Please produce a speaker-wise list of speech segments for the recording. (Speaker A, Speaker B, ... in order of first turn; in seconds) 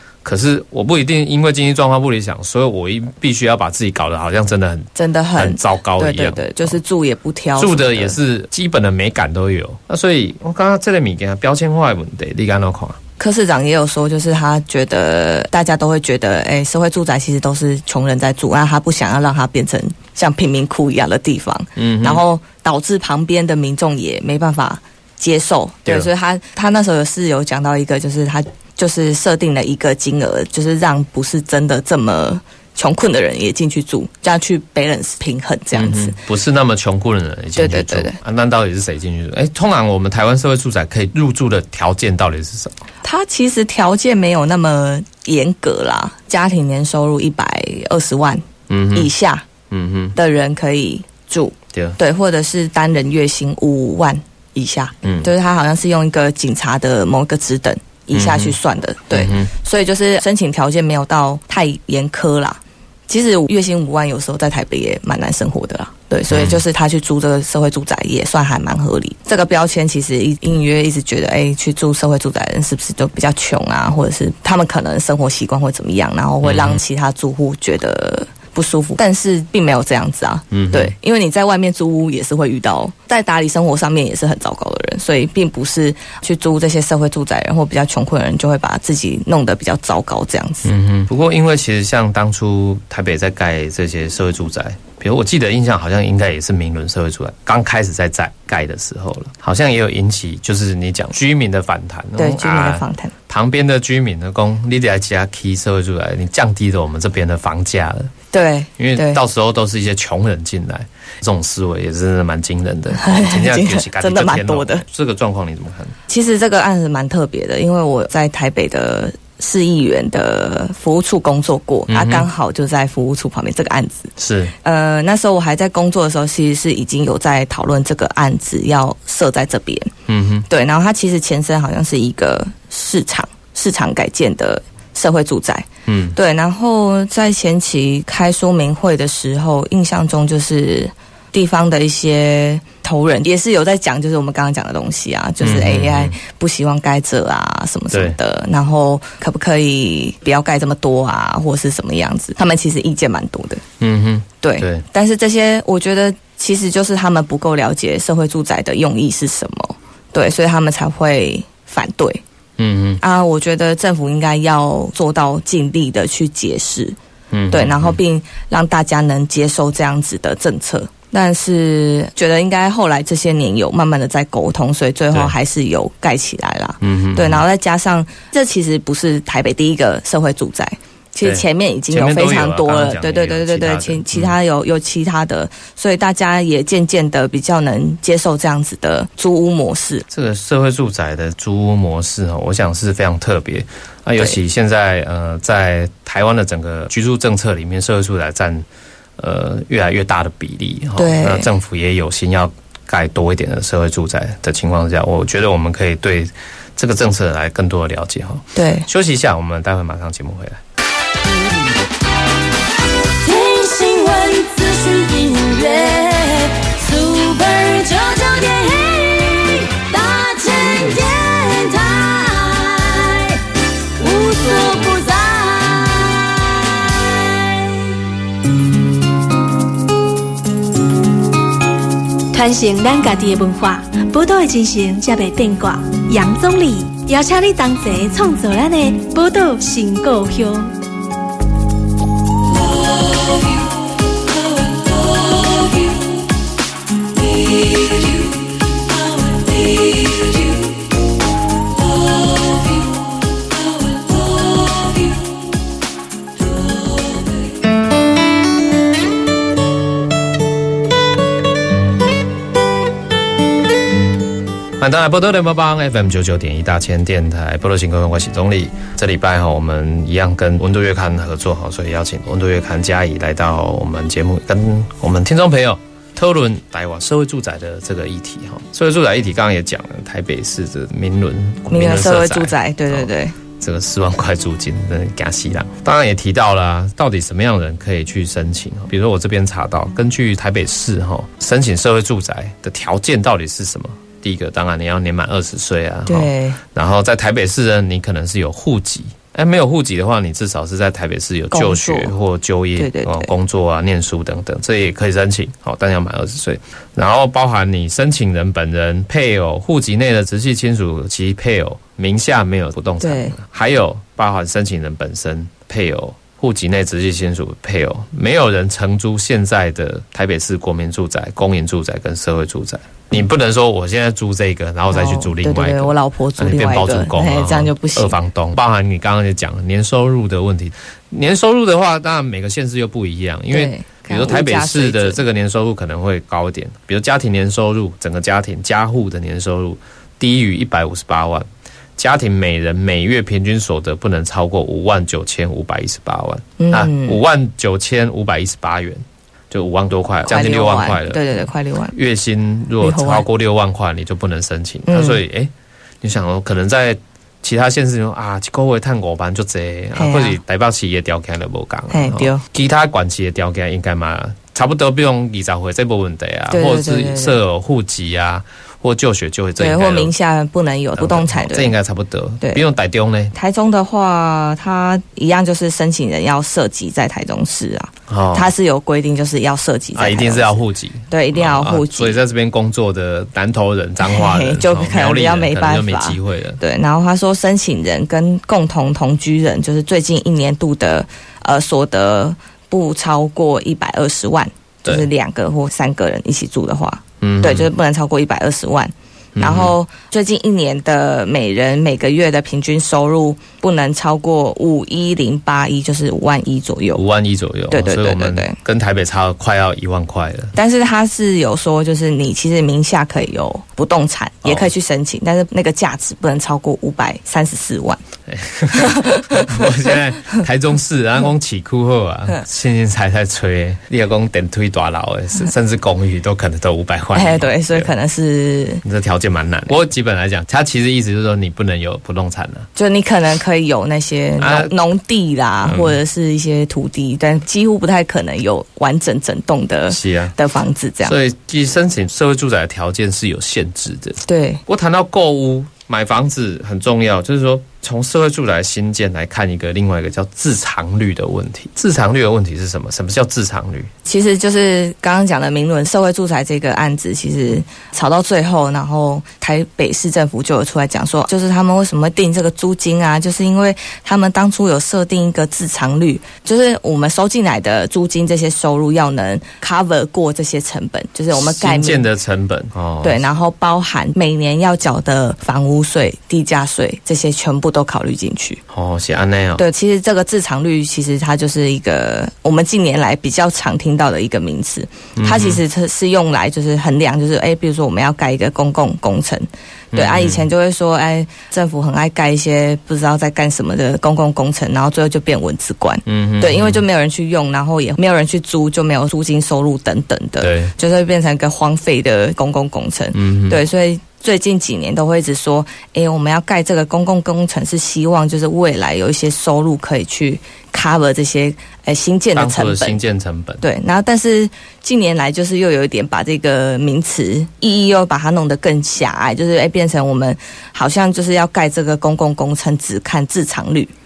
Speaker A: 0.2-6.8, 7.6-13.0, 21.8-22.2, 35.7-42.8, 48.7-49.1, 49.7-50.2, 55.0-55.3, 58.1-58.5, 59.1-59.5, 66.3-66.6, 76.4-76.8, 80.5-80.9, 90.7-108.1, 108.8-116.0, 121.9-122.3, 124.2-124.5, 130.1-130.5, 135.9-136.2, 145.4-146.2, 147.9-148.2, 153.8-154.8, 162.6-163.0, 167.3-168.0, 176.8-177.4, 181.2-184.3, 190.1-198.7, 199.2-210.6, 264.8-370.1, 371.0-373.4, 378.1-378.5, 379.9-386.6, 397.2-397.7, 399.4-399.8, 406.9-410.5, 414.4-414.7, 418.3-427.9, 428.8-432.7, 434.4-434.7, 435.6-436.0, 439.9-440.4, 441.0-453.9, 471.3-473.2, 478.7-479.6, 485.2-485.6, 489.9-490.5, 496.1-496.8, 500.4-500.7, 503.1-503.6, 512.4-513.6
Speaker B: 5.0-8.2, 13.2-36.2, 37.6-38.2, 43.0-49.5, 50.2-90.7, 102.2-103.1, 108.3-109.2, 112.9-114.8, 116.1-124.1, 124.6-129.9, 130.5-153.6, 154.4-162.2, 163.0-167.0, 167.5-190.1, 201.0-201.5, 208.6-208.9, 281.7-283.4, 296.1-296.6, 301.5-302.1, 302.8-303.3, 313.0-313.4, 324.9-328.2, 333.5-335.2, 346.6-347.2, 350.3-351.9, 352.8-353.3, 354.9-355.2, 360.0-360.4, 361.9-362.4, 366.5-367.4, 369.6-371.7, 373.3-382.2, 384.0-407.0, 407.7-408.6, 410.6-418.0, 418.7-419.7, 427.1-428.8, 432.8-441.1, 444.2-444.6, 454.1-472.0, 473.0-478.6, 479.6-513.0, 513.6-523.9
Speaker C: 213.2-223.4, 224.0-227.7
Speaker D: 232.3-240.7